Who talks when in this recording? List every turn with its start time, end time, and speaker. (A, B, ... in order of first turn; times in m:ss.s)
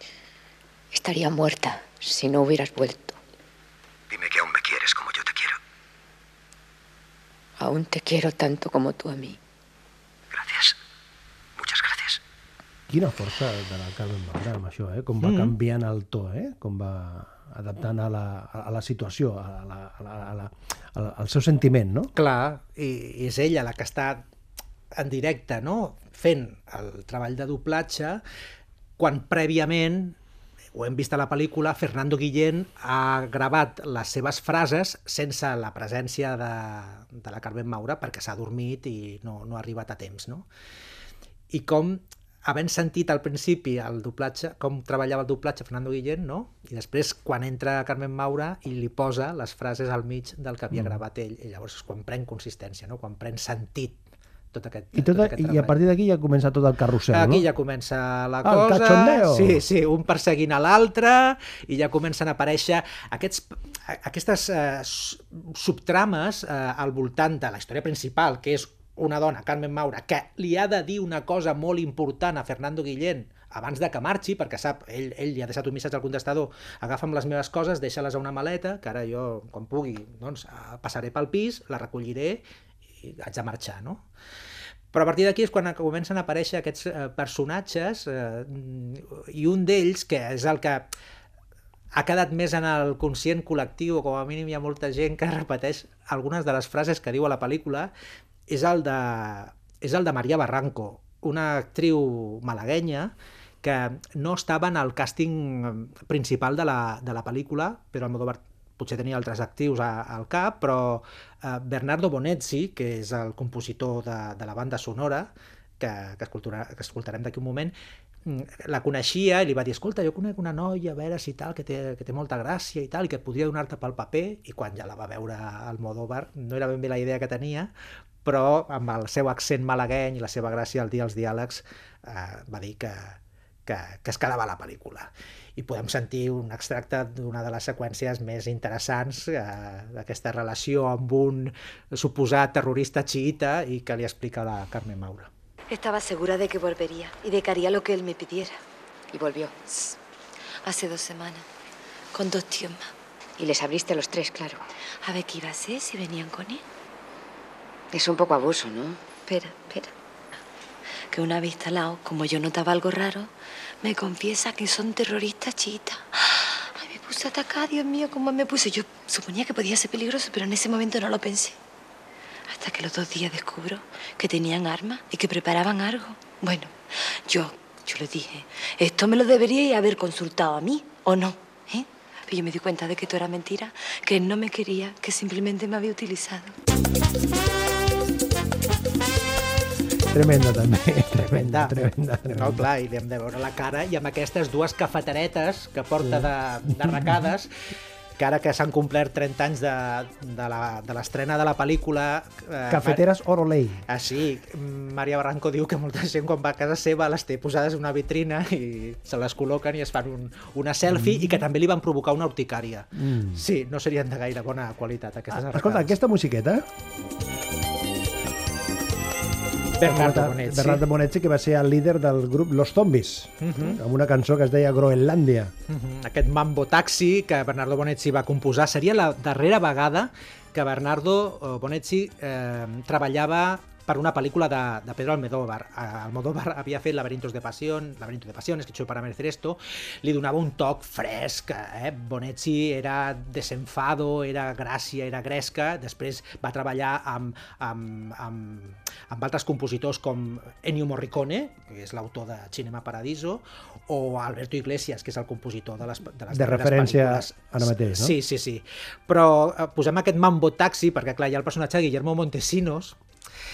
0:00.9-0:03.2 A
0:04.1-0:05.6 B
0:07.6-0:09.4 A
0:10.3-0:10.8 B
0:11.6-0:12.2 B
0:12.9-0:22.1 C
0:15.2-0:15.5 D
0:22.1-0:24.2 D
0:24.9-0:28.2 D
0:29.0-0:30.2 D
0:30.7-0:40.5 D
0:41.5-0:54.0 D
0:50.7-0:51.0 C
0:54.5-0:55.8 D
0:54.9-0:57.4 C
0:57.1-1:22.4 D
0:58.4-0:59.6 C
1:23.0-1:24.0 D
1:24.9-1:30.9 D
1:31.9-1:37.9 D
1:38.5-1:57.7 D
1:58.2-2:07.7 D
2:08.2-2:25.3 D
2:25.7-2:28.6 E
2:29.1-2:29.5 A
2:29.7-2:29.9 E
2:30.6-2:31.4 E
2:32.1-2:32.9 E
2:33.4-2:34.6 A
2:35.0-2:36.6 E
2:37.9-2:39.0 A
2:39.2-2:39.9 E
2:41.1-2:51.6 E
2:52.5-3:06.5 E
3:10.1-3:12.6 C
3:11.2-3:17.5 D
3:16.0-3:16.3 C
3:16.8-3:17.1 C
3:18.2-3:23.0 D
3:22.7-3:23.8 C
3:23.9-3:35.9 D
3:30.9-3:31.4 C
3:33.0-3:33.4 C
3:35.3-3:36.6 C
3:39.8-3:40.8 D
3:39.8-3:45.5 C
3:43.4-3:43.8 D
3:45.7-4:23.0 D
4:16.3-4:18.2 C